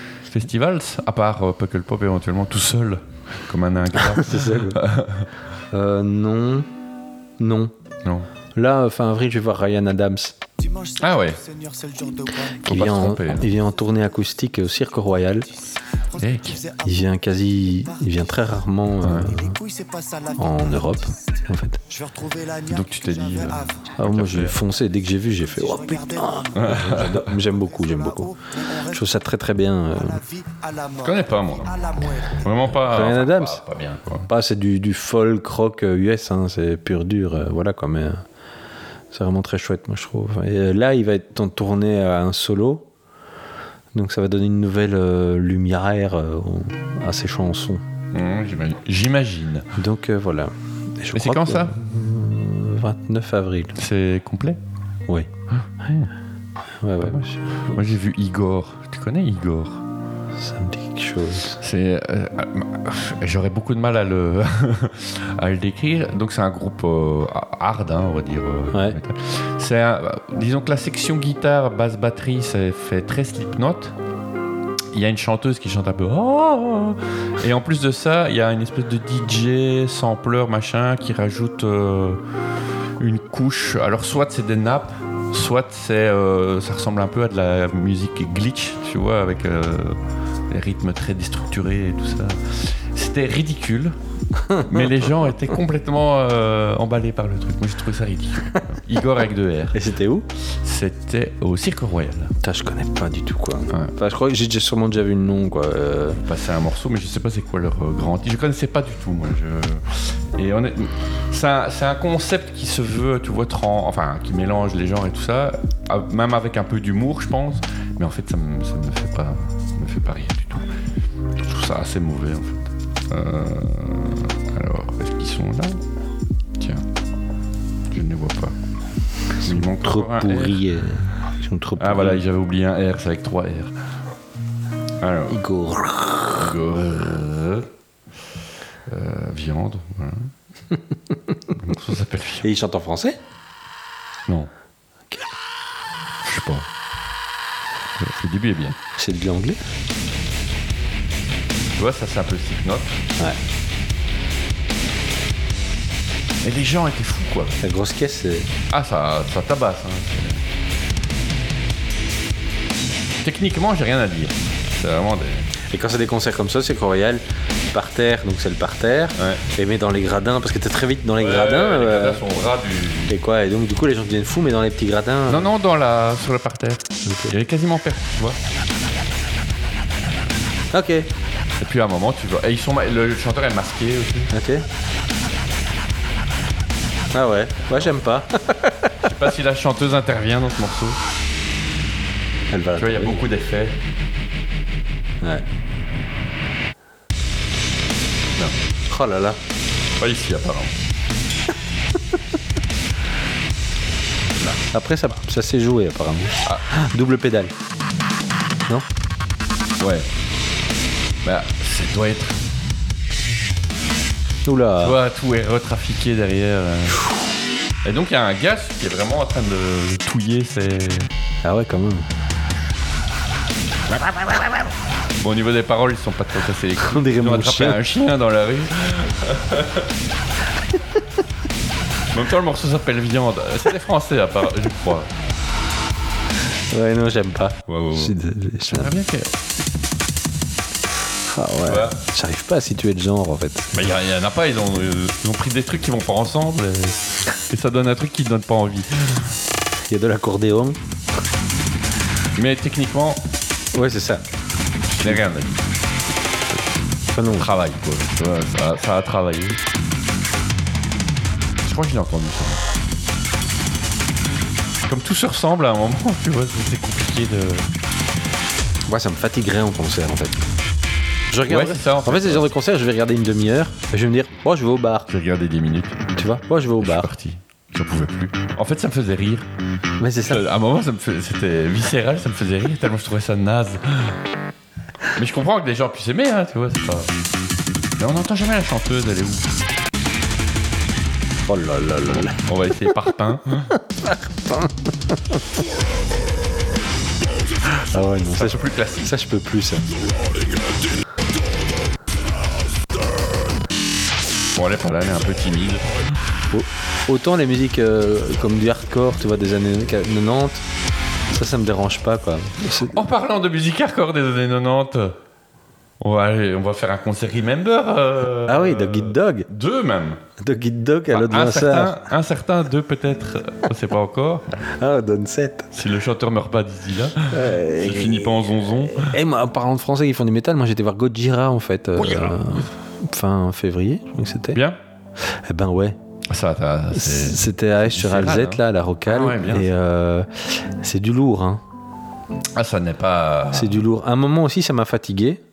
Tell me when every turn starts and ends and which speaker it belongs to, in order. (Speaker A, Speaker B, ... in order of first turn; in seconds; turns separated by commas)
Speaker A: 0.2-5.3, Speaker B: 4.0-4.8, Speaker B: 5.7-6.7, Speaker B: 7.4-7.7, Speaker B: 8.5-10.4, Speaker C: 10.6-12.6, Speaker A: 11.0-11.4, Speaker B: 12.6-15.5, Speaker A: 12.7-13.5, Speaker C: 16.1-16.9, Speaker A: 16.2-16.6, Speaker B: 16.8-19.6, Speaker A: 19.0-19.3, Speaker C: 19.4-21.1, Speaker B: 20.4-21.8, Speaker C: 21.9-23.9, Speaker A: 22.7-24.6, Speaker B: 24.0-28.4, Speaker C: 25.5-29.0, Speaker A: 26.6-27.3, Speaker B: 28.9-30.2, Speaker C: 30.0-32.4, Speaker A: 31.0-34.3, Speaker B: 32.8-33.6, Speaker B: 34.3-38.2, Speaker B: 39.1-42.9, Speaker B: 43.9-47.8, Speaker A: 48.1-49.7, Speaker B: 49.8-53.8, Speaker A: 51.1-51.7, Speaker A: 53.7-54.6, Speaker A: 55.5-56.1, Speaker B: 56.8-57.8, Speaker A: 57.0-59.8, Speaker B: 60.4-61.6, Speaker A: 61.6-73.9, Speaker B: 68.7-69.0, Speaker A: 74.9-82.2, Speaker A: 83.0-94.0, Speaker B: 94.4-94.9, Speaker A: 94.5-99.8, Speaker B: 99.7-100.2, Speaker A: 100.6-102.3, Speaker B: 102.4-106.2, Speaker A: 106.2-120.7, Speaker A: 121.4-125.8, Speaker A: 126.6-126.8, Speaker A: 127.9-128.5, Speaker A: 129.4-130.7, Speaker B: 129.4-132.2, Speaker A: 131.8-133.7, Speaker A: 135.0-135.4, Speaker B: 135.3-136.5, Speaker A: 136.3-137.7, Speaker A: 138.9-140.3, Speaker A: 141.5-142.5, Speaker B: 142.4-143.2, Speaker A: 146.2-146.7, Speaker A: 148.0-148.8, Speaker B: 148.9-149.6, Speaker A: 151.8-153.0, Speaker A: 156.4-157.6, Speaker B: 157.6-158.5, Speaker A: 158.7-160.4, Speaker A: 163.2-165.4, Speaker B: 165.7-172.2, Speaker A: 169.2-169.4, Speaker A: 171.2-173.2, Speaker B: 173.1-175.5, Speaker A: 175.3-178.4, Speaker B: 177.0-177.3, Speaker B: 180.7-181.1, Speaker A: 181.6-184.3, Speaker B: 184.3-184.7, Speaker B: 187.1-189.0, Speaker A: 189.0-191.0, Speaker B: 192.5-193.2, Speaker A: 192.8-193.8, Speaker B: 198.9-199.4, Speaker A: 200.0-200.7, Speaker B: 204.5-207.5, Speaker A: 209.8-210.1, Speaker A: 211.2-212.4, Speaker B: 214.4-215.0, Speaker A: 214.8-217.0, Speaker A: 217.8-221.1, Speaker B: 221.4-222.1, Speaker A: 223.9-224.3, Speaker A: 225.2-229.9, Speaker B: 226.8-227.8, Speaker A: 232.1-235.1, Speaker B: 236.7-238.9, Speaker A: 237.7-238.1, Speaker A: 238.7-239.3, Speaker B: 241.3-243.7, Speaker A: 241.6-242.0, Speaker A: 243.7-249.3, Speaker B: 249.9-250.8, Speaker A: 252.3-253.2, Speaker B: 253.7-254.2, Speaker A: 254.9-255.6, Speaker B: 257.1-257.5, Speaker A: 257.2-259.6, Speaker A: 261.6-262.6, Speaker A: 264.8-267.7, Speaker B: 268.9-270.4, Speaker B: 271.3-275.1, Speaker A: 271.5-272.5, Speaker A: 275.1-276.2, Speaker B: 276.1-277.1, Speaker A: 276.8-279.5, Speaker B: 280.0-280.4, Speaker A: 280.2-284.2, Speaker A: 285.1-287.1, Speaker A: 288.0-289.5, Speaker B: 291.5-292.4, Speaker A: 292.3-293.7, Speaker B: 293.9-295.4, Speaker B: 297.8-299.9, Speaker A: 298.3-299.1, Speaker A: 304.5-306.0, Speaker B: 306.5-310.6, Speaker B: 311.3-313.0, Speaker A: 312.9-315.2, Speaker A: 316.0-320.2, Speaker B: 318.5-319.5, Speaker B: 320.4-322.1, Speaker A: 321.1-324.5, Speaker B: 324.8-325.8, Speaker A: 325.8-329.1, Speaker B: 327.3-334.6, Speaker A: 332.0-332.7, Speaker A: 334.5-334.8, Speaker B: 335.2-336.0, Speaker A: 336.3-339.7, Speaker B: 336.9-341.6, Speaker A: 342.5-343.9, Speaker B: 343.5-345.4